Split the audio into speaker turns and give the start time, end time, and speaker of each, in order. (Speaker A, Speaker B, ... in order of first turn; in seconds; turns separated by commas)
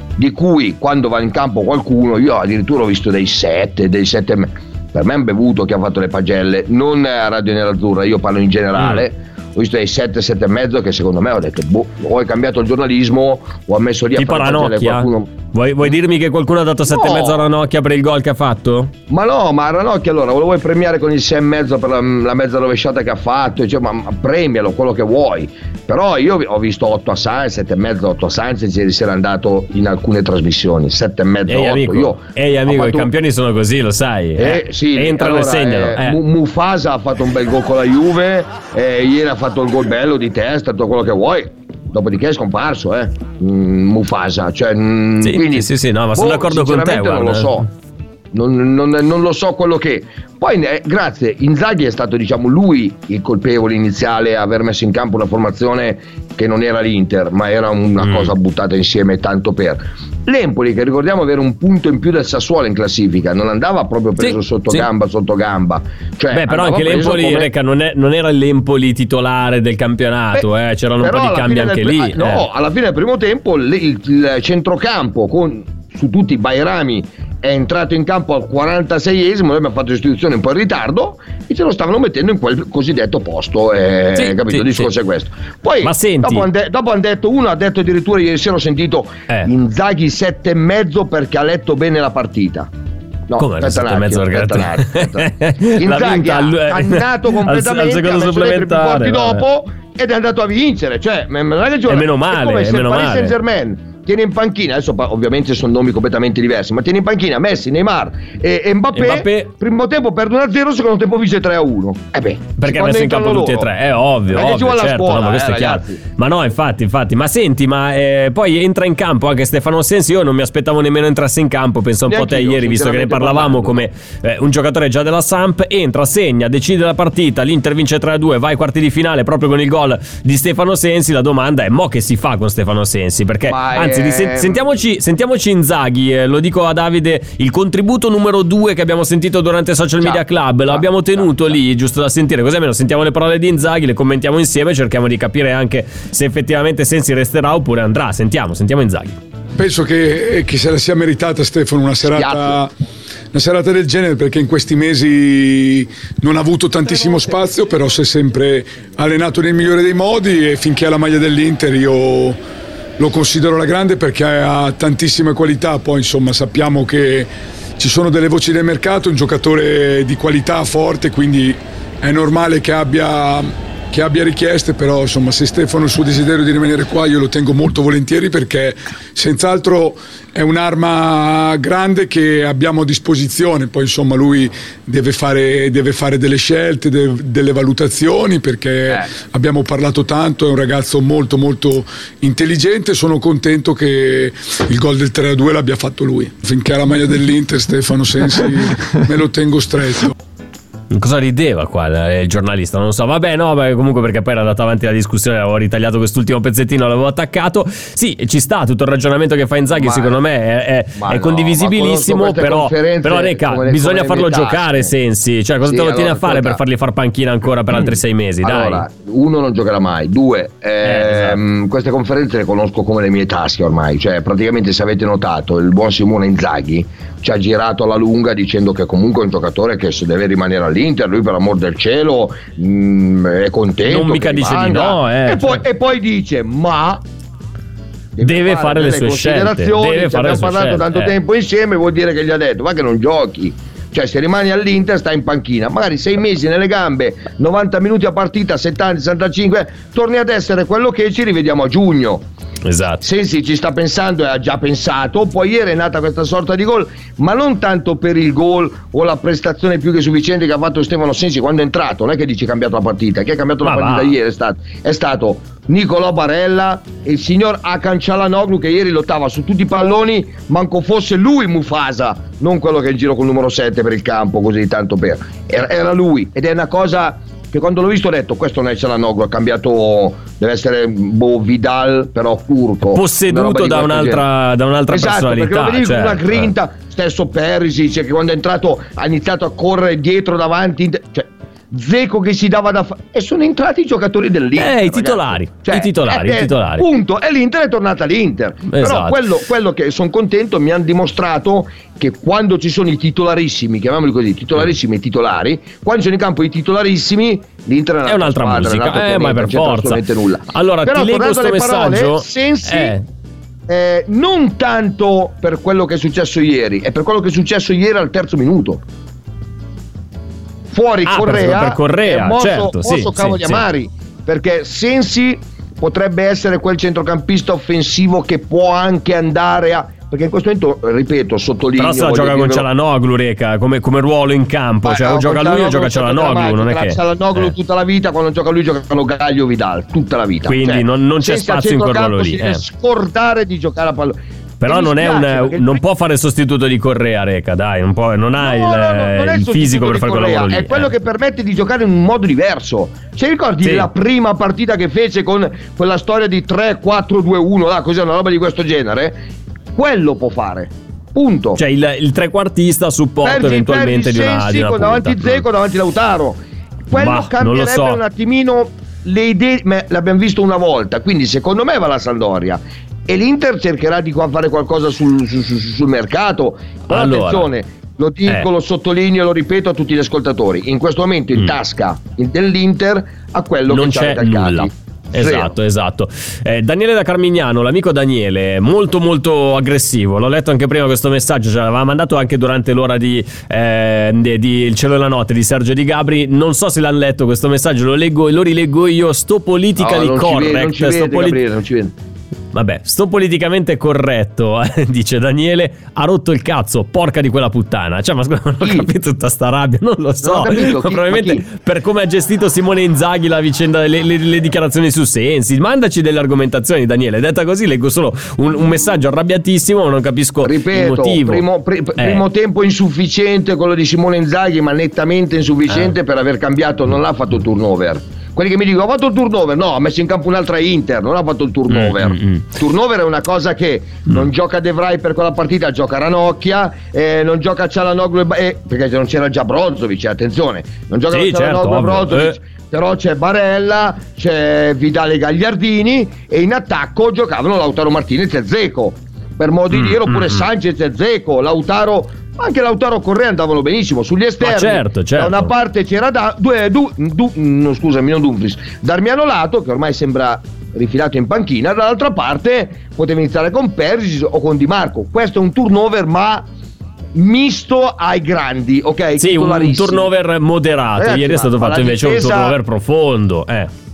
Speaker A: 0.2-15.3, Speaker B: 8.8-9.1, Speaker B: 14.2-18.9, Speaker A: 16.9-17.4, Speaker A: 19.1-33.1, Speaker B: 31.5-36.2, Speaker A: 34.4-47.7, Speaker B: 45.2-47.7, Speaker A: 48.3-67.5, Speaker B: 58.0-58.3, Speaker B: 64.2-64.9, Speaker B: 66.3-72.5, Speaker A: 71.0-92.7, Speaker B: 84.2-84.9, Speaker B: 85.8-86.5, Speaker A: 93.3-113.7, Speaker B: 93.4-99.5, Speaker B: 101.9-103.4, Speaker B: 108.9-109.5, Speaker B: 112.6-149.2, Speaker A: 114.3-116.0, Speaker A: 122.1-123.9, Speaker A: 133.4-134.6, Speaker A: 140.0-141.5, Speaker C: 149.6-152.7, Speaker A: 152.0-152.6, Speaker C: 153.3-162.4, Speaker C: 163.0-200.1, Speaker B: 200.9-218.8, Speaker A: 209.7-210.2, Speaker A: 210.9-214.9, Speaker A: 215.7-216.6, Speaker A: 217.7-237.0, Speaker B: 220.8-221.4, Speaker B: 233.9-235.6, Speaker A: 238.1-252.3, Speaker B: 238.2-241.1, Speaker B: 252.7-253.0, Speaker A: 253.0-284.2, Speaker B: 263.6-264.2, Speaker B: 282.9-286.5, Speaker A: 284.9-313.0, Speaker B: 294.6-296.9, Speaker B: 298.7-299.2, Speaker B: 308.1-313.0, Speaker A: 313.7-318.8, Speaker A: 320.7-332.7, Speaker B: 321.1-323.6, Speaker B: 331.8-337.5, Speaker A: 334.9-345.8, Speaker B: 340.4-342.6, Speaker B: 344.6-350.9, Speaker A: 348.4-361.6, Speaker B: 353.6-353.9, Speaker B: 361.6-365.4, Speaker A: 363.2-385.6, Speaker B: 366.9-368.0, Speaker B: 376.9-377.5, Speaker B: 383.7-401.4, Speaker A: 399.8-401.9, Speaker B: 402.5-421.4, Speaker A: 408.6-408.9, Speaker A: 410.2-411.5, Speaker A: 420.4-466.4, Speaker B: 422.0-422.2, Speaker B: 431.7-432.5, Speaker B: 441.1-442.4, Speaker B: 449.7-450.5, Speaker B: 454.4-455.5, Speaker A: 467.1-470.1, Speaker B: 469.2-473.7, Speaker A: 471.0-472.6